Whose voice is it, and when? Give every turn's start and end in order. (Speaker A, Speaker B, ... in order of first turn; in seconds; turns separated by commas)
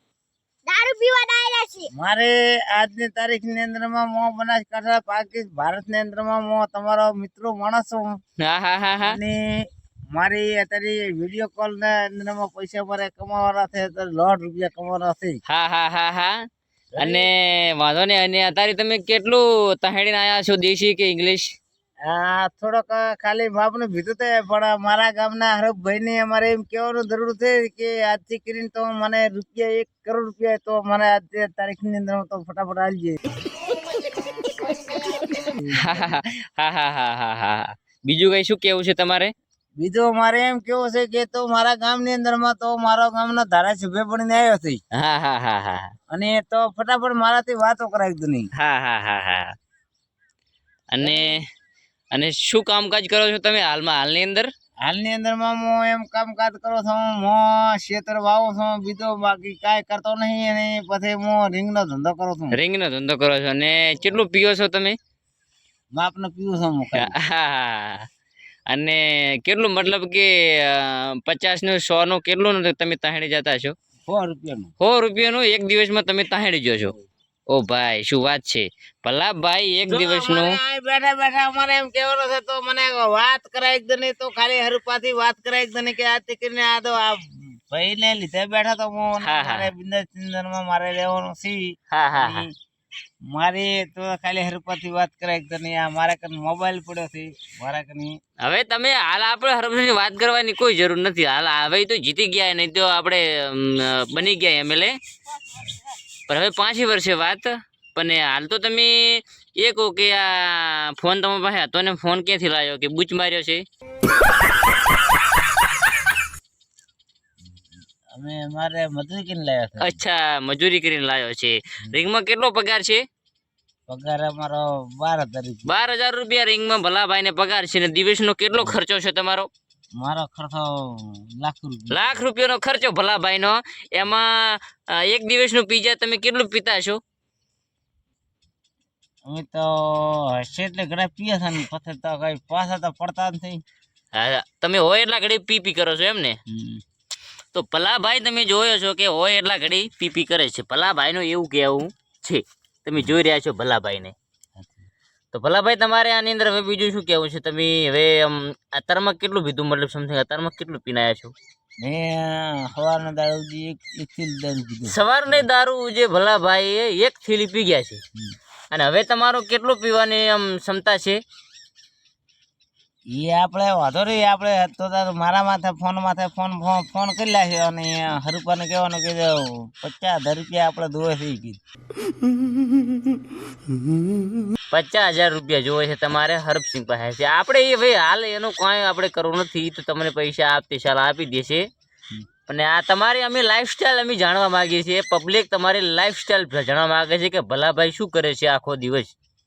Speaker A: 0.7-1.9, Speaker B: 1.9-8.2, Speaker C: 8.4-9.2, Speaker B: 9.0-15.4, Speaker C: 15.4-16.3, Speaker B: 16.9-17.3, Speaker C: 17.0-21.6, Speaker B: 22.1-33.5, Speaker A: 33.9-35.3, Speaker B: 35.3-36.1, Speaker C: 35.7-39.3, Speaker B: 39.8-44.8, Speaker C: 44.9-45.9, Speaker B: 46.1-48.5, Speaker C: 48.5-49.5, Speaker C: 50.9-51.4, Speaker B: 51.0-51.4, Speaker C: 52.1-54.5, Speaker B: 54.8-62.5, Speaker C: 62.5-65.0, Speaker B: 65.9-67.2, Speaker C: 67.0-68.1, Speaker C: 68.7-73.7, Speaker B: 74.0-74.7, Speaker C: 74.8-76.9, Speaker C: 77.5-80.6, Speaker B: 79.9-92.5, Speaker C: 89.2-89.7, Speaker C: 91.9-92.5, Speaker B: 93.3-98.2, Speaker C: 98.4-104.9, Speaker C: 106.3-113.6, Speaker B: 118.1-120.0, Speaker C: 119.8-123.0, Speaker B: 123.9-125.8, Speaker C: 125.7-129.5, Speaker B: 130.0-132.2, Speaker C: 131.9-137.0, Speaker B: 139.2-143.6, Speaker C: 144.1-146.4, Speaker B: 146.5-146.8, Speaker C: 147.5-154.1, Speaker B: 154.6-154.8, Speaker C: 155.3-161.3, Speaker B: 161.8-165.4, Speaker C: 164.9-168.0, Speaker C: 168.7-171.2, Speaker B: 173.1-181.6, Speaker C: 184.7-191.7, Speaker C: 192.5-199.1